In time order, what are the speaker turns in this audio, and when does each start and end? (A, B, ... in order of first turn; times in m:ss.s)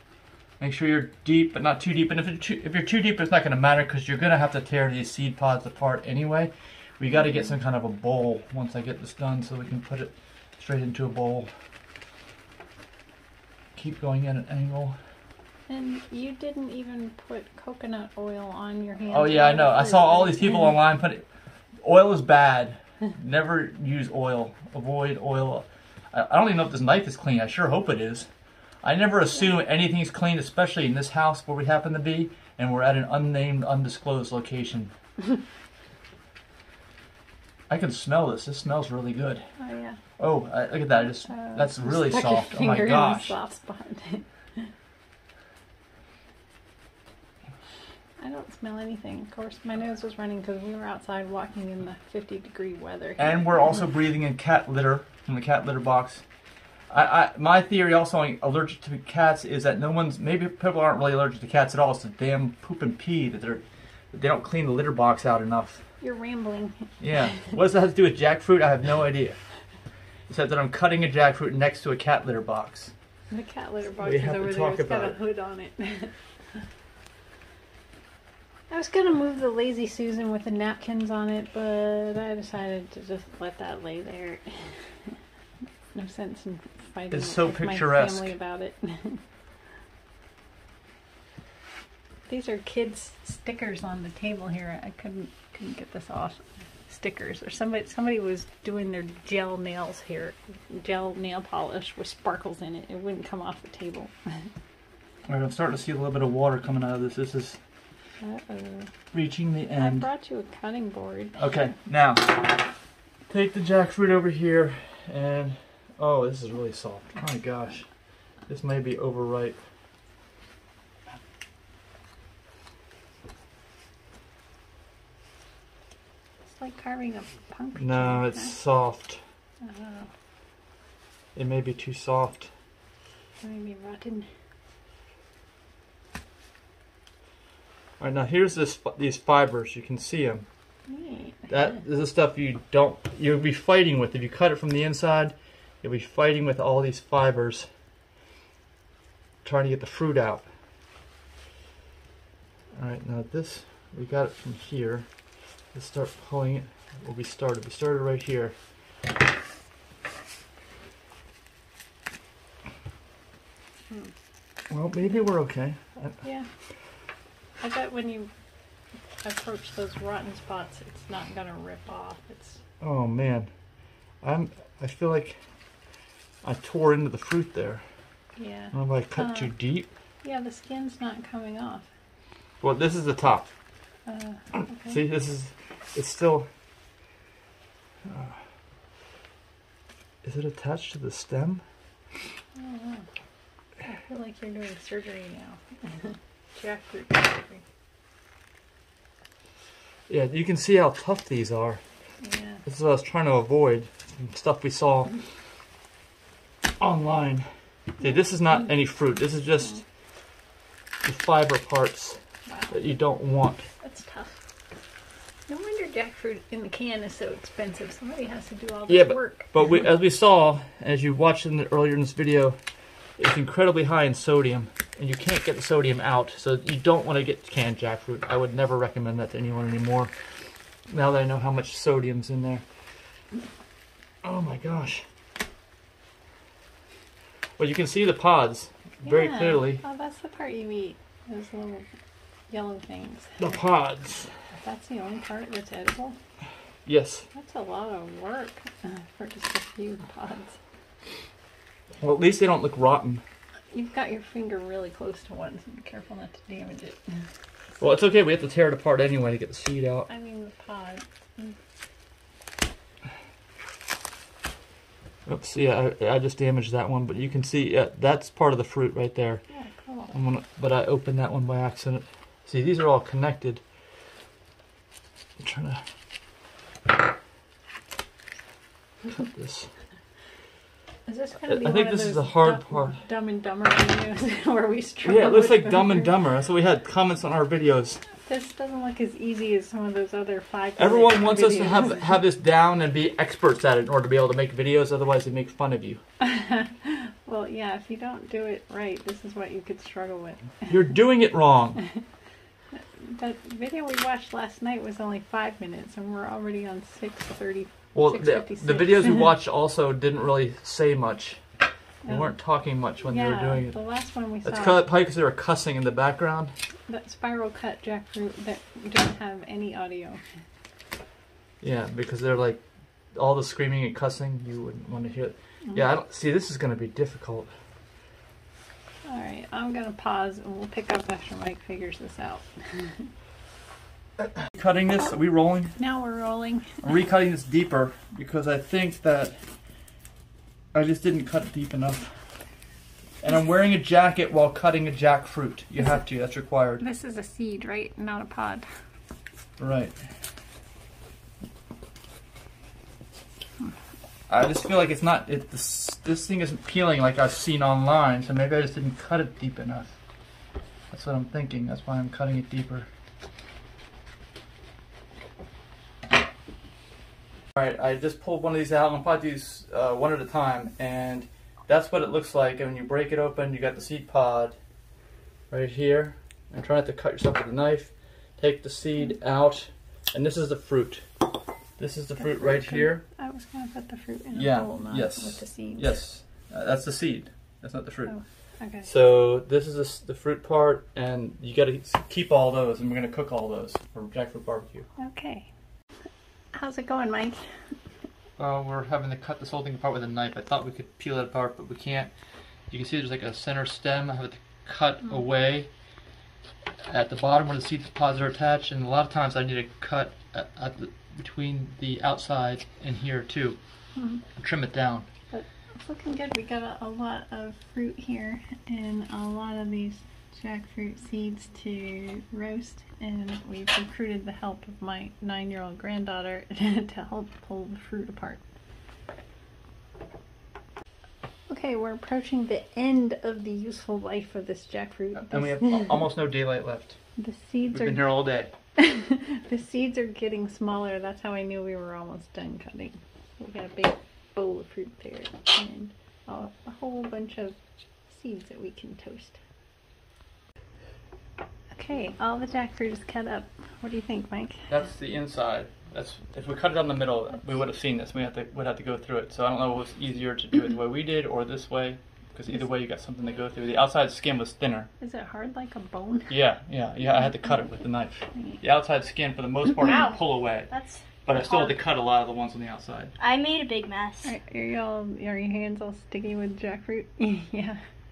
0:00.6-0:11.5 A
0:13.8-0:15.0 A
0:15.7-0:20.8 B
0:19.1-0:21.2 A
0:21.8-0:28.3 A
0:28.8-0:34.9 A
0:37.7-0:39.4 A
0:39.6-0:40.0 B
0:40.2-0:43.3 A
0:41.2-0:44.2 B
0:48.2-0:53.8 B
0:53.2-0:56.2 A
0:56.9-1:05.8 A
1:06.0-1:06.9 B
1:07.0-1:09.4 A
1:10.3-1:12.9 A
1:13.3-1:16.1 B
1:14.0-1:15.2 A
1:18.7-1:24.5 B
1:25.9-1:29.2 B
1:27.1-1:28.3 A
1:32.3-1:44.5 B
1:45.2-1:47.6 A
1:48.2-1:48.9 B
1:49.1-1:50.1 A
1:49.8-1:51.4 B
1:51.4-1:52.7 A
1:53.3-1:57.9 A
1:58.5-1:59.6 A
2:06.6-2:08.5 B
2:07.8-2:09.2 A
2:09.6-2:10.1 B
2:11.4-2:12.5 A
2:13.4-2:14.3 B
2:18.0-2:20.4 A
2:20.9-2:21.5 B
2:21.5-2:27.7 A
2:29.4-2:30.4 A
2:32.8-2:35.1 A
2:35.7-2:38.5 A
2:44.7-2:46.2 A
2:47.6-2:48.3 B
2:49.2-2:52.6 B
2:52.8-2:53.5 A
2:54.2-2:55.4 A
2:56.4-2:57.8 A
2:58.4-2:59.5 B
2:58.7-2:59.9 A
3:00.2-3:01.9 B
3:02.6-3:03.5 A
3:04.1-3:05.0 B
3:04.9-3:06.5 A
3:08.1-3:08.4 A
3:10.2-3:11.6 A
3:12.6-3:13.0 B
3:13.8-3:17.6 B
3:20.1-3:21.8 A
3:22.2-3:22.6 B
3:22.6-3:25.1 A
3:26.8-3:27.4 A
3:28.0-3:29.8 A
3:31.0-3:32.2 A
3:32.5-3:32.8 B
3:32.7-3:33.7 A
3:33.8-3:34.4 B
3:35.5-3:39.6 B
3:38.9-3:42.6 A
3:43.2-3:50.1 A
3:50.9-3:52.6 A
3:54.2-3:55.0 A
3:57.6-3:59.8 A
3:59.0-4:01.9 B
4:02.5-4:03.6 B
4:03.4-4:04.3 A
4:04.6-4:06.2 B
4:06.8-4:07.2 A
4:07.3-4:10.6 B
4:12.0-4:13.2 A
4:13.7-4:17.0 B
4:17.8-4:20.1 A
4:20.1-4:21.6 B
4:25.3-4:29.4 A
4:29.5-4:30.1 B
4:30.1-4:33.6 A
4:35.4-4:35.8 A
4:39.1-4:39.7 A
4:41.1-4:46.2 B
4:41.4-4:43.0 A
4:45.0-4:48.0 A
4:48.2-4:52.2 B
4:50.8-4:56.0 A
4:56.2-5:00.7 B
5:00.7-5:01.8 A
5:02.7-5:09.3 B
5:07.9-5:11.4 A
5:12.0-5:12.3 B
5:12.1-5:13.8 A
5:13.0-5:14.8 B
5:14.4-5:16.5 A
5:16.9-5:20.2 B
5:21.6-5:22.6 A
5:23.2-5:27.5 A
5:29.1-5:33.1 B
5:34.5-5:35.8 A
5:35.8-5:36.7 B
5:36.8-5:39.4 A
5:40.7-5:42.2 A
5:43.2-5:46.8 A
5:46.8-5:48.7 B
5:49.6-5:49.9 A
5:54.3-6:00.0 A
6:00.9-6:02.9 A
6:07.6-6:14.6 A
6:15.5-6:21.0 A
6:21.8-6:23.0 A
6:22.2-6:26.0 B
6:24.3-6:28.2 A
6:28.1-6:28.9 B
6:28.8-6:34.8 A
6:35.0-6:35.5 B
6:36.6-6:37.4 B
6:38.4-6:42.1 A
6:42.7-6:45.7 A
6:46.8-6:53.6 A
6:54.0-6:54.2 B
6:54.4-6:55.1 A
6:55.3-7:08.4 B
7:11.5-7:16.1 B
7:15.2-7:17.0 A
7:17.2-7:18.2 B
7:17.7-7:18.5 A
7:18.8-7:27.6 B
7:28.1-7:29.4 B
7:31.8-7:34.7 B
7:34.7-7:44.9 A
7:45.0-7:46.4 B
7:46.3-7:50.7 A
7:49.8-7:50.1 C
7:50.7-7:51.7 C
7:51.2-7:53.1 A
7:53.2-7:54.3 C
7:54.2-7:57.8 B